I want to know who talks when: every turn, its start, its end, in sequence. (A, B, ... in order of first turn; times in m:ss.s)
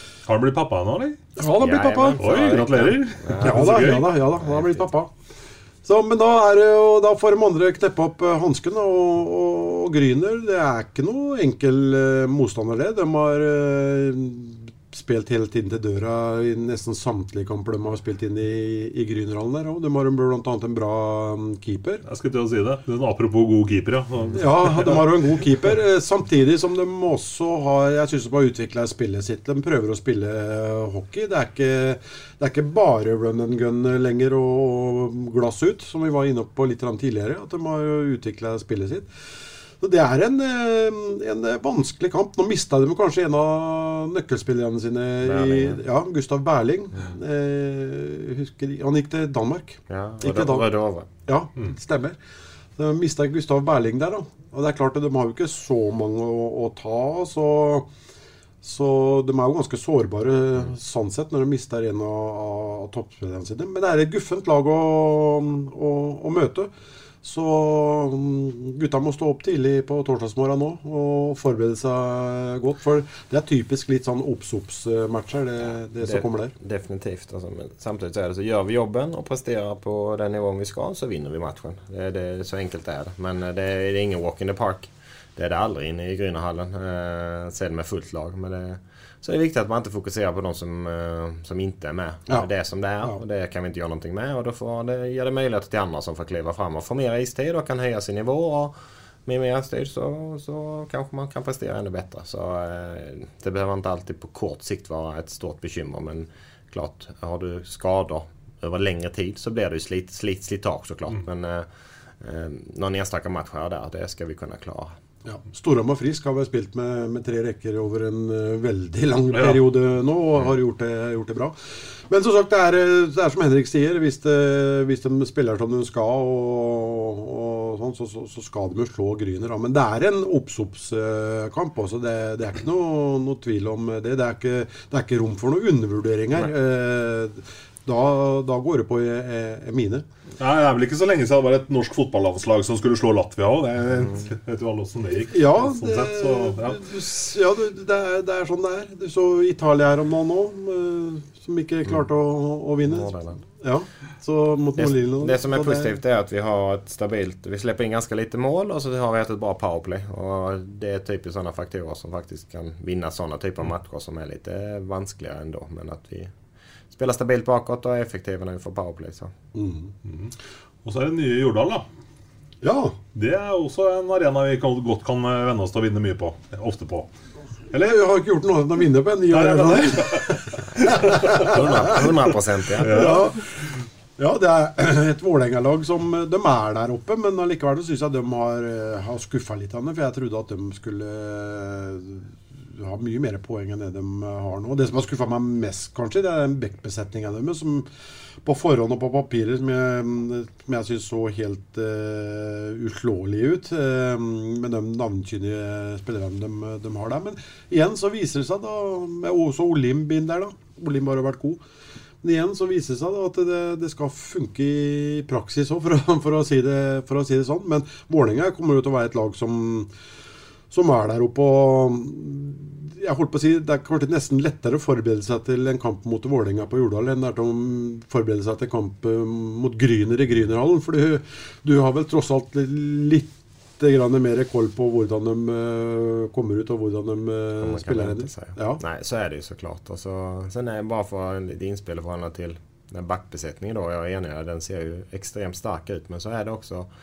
0:00.2-0:01.2 A
0:01.4-0:02.2 B
0:01.6-0:04.8 C
0:02.2-0:04.1 A
0:03.4-0:05.1 B
0:05.8-0:22.0 B
0:22.0-0:25.0 A
0:24.3-0:39.1 B
0:39.8-0:50.7 B
0:45.2-0:45.8 C
0:49.9-0:51.1 C
0:51.2-0:52.2 B
0:52.8-0:57.9 B
0:58.6-1:06.7 B
1:07.2-1:16.5 B
1:16.0-1:51.7 C
1:52.2-1:55.0 C
1:55.2-2:01.5 B
1:59.3-1:59.6 A
2:02.1-2:20.0 B
2:20.4-2:26.8 A
2:25.3-2:35.9 B
2:32.8-2:33.4 C
2:34.8-2:46.3 C
2:46.9-2:49.3 C
2:49.5-2:49.9 B
2:50.0-2:51.8 A
2:52.6-2:53.0 B
2:53.1-2:57.1 A
2:57.8-3:02.0 B
2:59.3-3:01.6 A
3:01.4-3:03.2 C
3:02.8-3:17.9 B
3:02.8-3:03.3 A
3:18.4-3:31.6 B
3:32.2-3:39.9 B
3:40.7-3:58.8 B
3:57.6-4:06.9 C